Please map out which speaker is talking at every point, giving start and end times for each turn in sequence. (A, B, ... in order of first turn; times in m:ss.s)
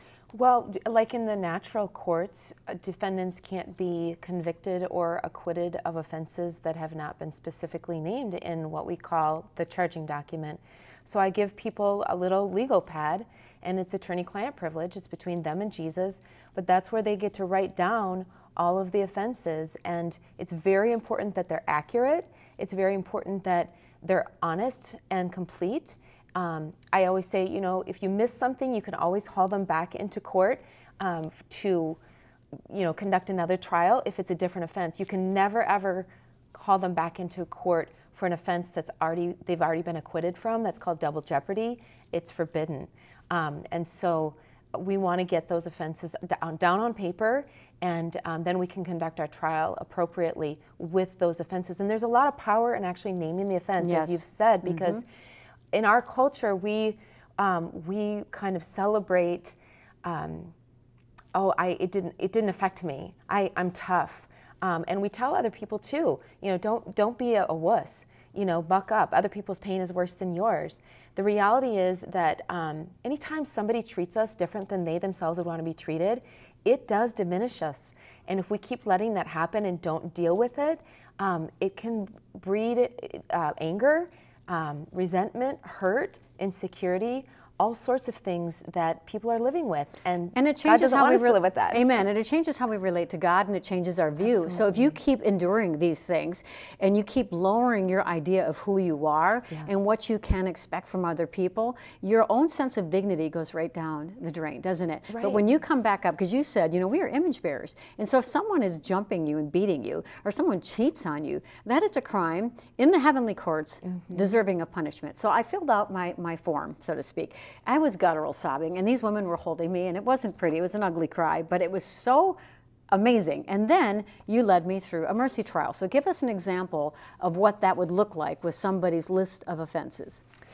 0:00.3-0:32.0 A
0:32.7-0:55.0 A
0:53.8-0:55.0 B
0:55.7-1:00.5 A
1:01.4-1:31.9 A
1:30.4-2:02.4 B
1:34.2-1:35.0 A
1:39.5-1:39.8 A
1:45.1-1:45.5 A
1:53.9-1:54.3 A
2:02.9-2:10.2 B